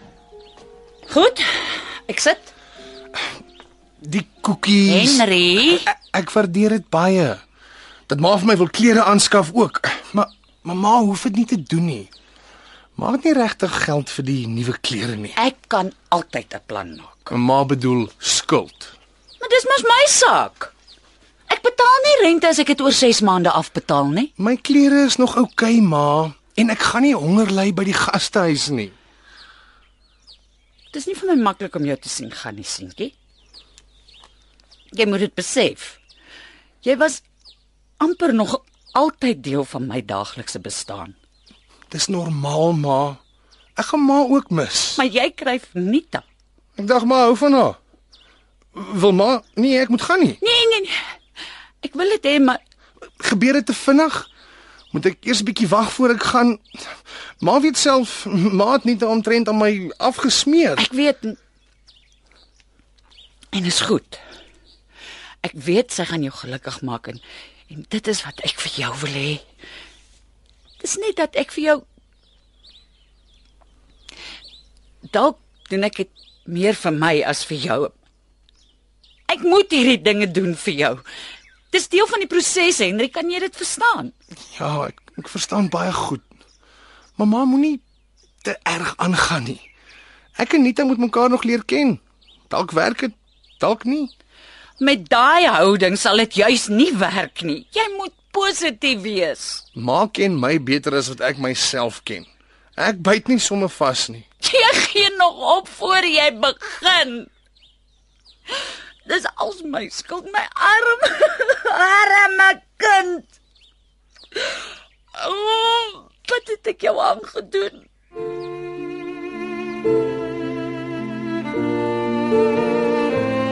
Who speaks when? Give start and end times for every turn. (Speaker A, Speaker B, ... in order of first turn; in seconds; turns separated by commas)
Speaker A: 1.1-2.5, Speaker B: 4.0-5.2, Speaker A: 4.8-5.9, Speaker B: 5.8-7.4, Speaker B: 8.1-12.1, Speaker B: 13.0-15.3, Speaker A: 15.4-17.3, Speaker B: 17.3-18.9, Speaker A: 19.4-20.7, Speaker A: 21.5-24.3, Speaker B: 24.4-28.9, Speaker A: 30.9-33.1, Speaker A: 34.9-36.0, Speaker A: 36.8-37.2, Speaker A: 38.0-41.2, Speaker B: 41.9-43.2, Speaker B: 43.8-45.0, Speaker A: 45.0-46.2, Speaker B: 46.8-47.8, Speaker B: 48.7-50.4, Speaker A: 50.4-51.0, Speaker A: 51.8-52.6, Speaker B: 53.2-54.3, Speaker B: 54.9-60.8, Speaker A: 60.8-61.4, Speaker A: 63.5-64.2, Speaker A: 65.4-69.4, Speaker A: 70.8-71.8, Speaker A: 75.1-77.9, Speaker A: 79.3-81.0, Speaker A: 81.7-84.1, Speaker B: 84.6-86.2, Speaker B: 87.2-87.8, Speaker B: 88.4-89.6, Speaker B: 90.4-94.1, Speaker A: 94.8-99.6, Speaker B: 99.8-104.2, Speaker A: 104.4-107.3, Speaker A: 109.0-113.3, Speaker A: 114.3-114.6, Speaker A: 115.1-117.8